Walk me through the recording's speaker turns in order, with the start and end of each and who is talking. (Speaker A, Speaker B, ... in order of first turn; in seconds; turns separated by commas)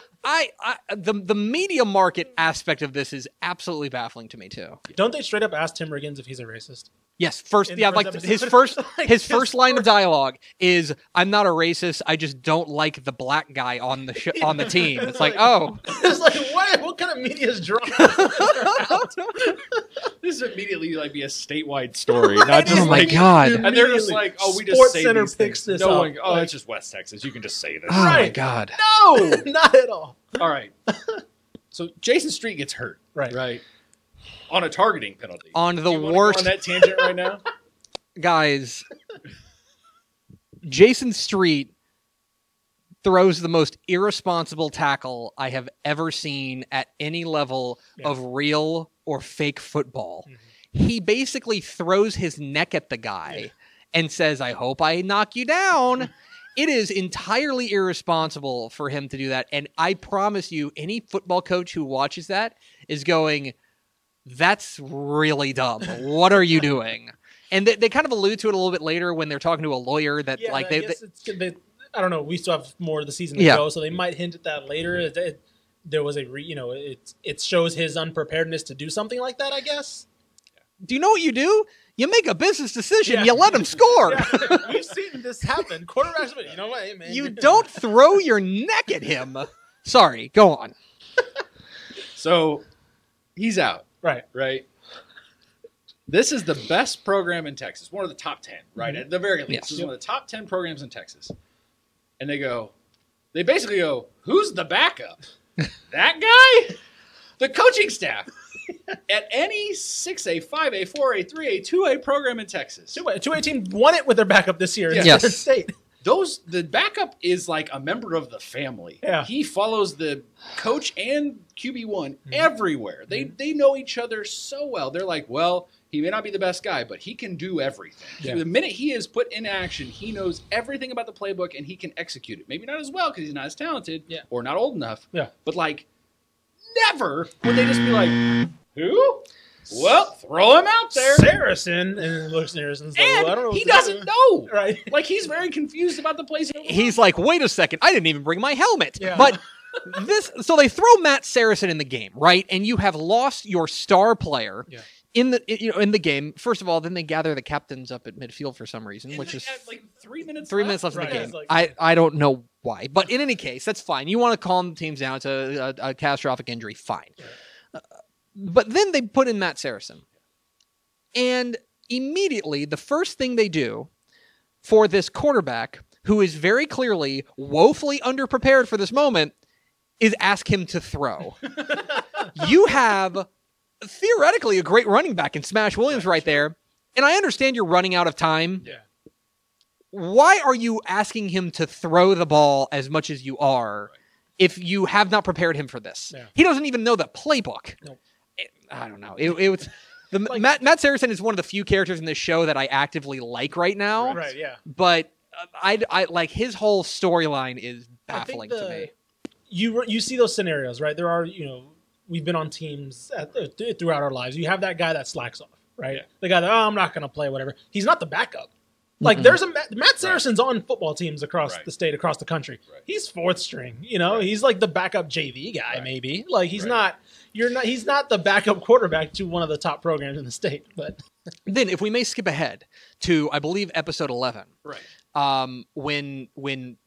Speaker A: 0.2-4.8, Speaker B: 4.9-6.9, Speaker A: 7.2-16.0, Speaker B: 7.7-9.9, Speaker B: 14.3-19.8, Speaker A: 17.9-19.5, Speaker C: 20.2-28.3, Speaker B: 22.1-26.5, Speaker A: 22.5-23.7, Speaker A: 27.9-28.8, Speaker B: 27.9-30.4, Speaker C: 29.1-29.4, Speaker C: 30.4-30.7, Speaker B: 30.9-31.2, Speaker C: 31.7-33.6, Speaker C: 34.5-37.4, Speaker A: 35.5-36.6, Speaker A: 38.2-38.9, Speaker A: 40.6-41.7, Speaker A: 43.0-63.5, Speaker A: 64.2-71.0, Speaker B: 70.4-80.0, Speaker A: 73.3-73.6, Speaker A: 80.8-84.7, Speaker B: 83.0-87.8, Speaker A: 87.0-90.7, Speaker C: 92.1-92.6, Speaker C: 93.3-94.7, Speaker C: 96.1-101.3, Speaker A: 99.5-99.8, Speaker C: 102.2-102.7, Speaker C: 103.3-105.2, Speaker C: 105.9-106.8, Speaker C: 107.4-108.3, Speaker C: 109.1-113.0, Speaker B: 112.9-115.7, Speaker C: 114.9-115.2, Speaker A: 115.0-115.4, Speaker C: 116.0-135.8, Speaker B: 119.0-119.3, Speaker C: 136.6-141.3, Speaker B: 140.9-144.9, Speaker C: 142.9-146.9, Speaker A: 146.6-159.6, Speaker B: 149.0-149.4, Speaker C: 159.1-161.3, Speaker A: 160.5-167.2, Speaker B: 160.9-161.6, Speaker A: 168.3-170.0, Speaker A: 171.1-173.9, Speaker A: 174.6-179.3, Speaker A: 180.0-183.3, Speaker A: 183.8-188.7, Speaker A: 189.9-197.8, Speaker A: 198.4-208.9, Speaker B: 204.1-204.6, Speaker B: 208.1-208.9, Speaker B: 209.5-218.5, Speaker A: 219.0-219.4, Speaker B: 219.0-231.0, Speaker A: 231.5-234.5, Speaker A: 235.1-236.8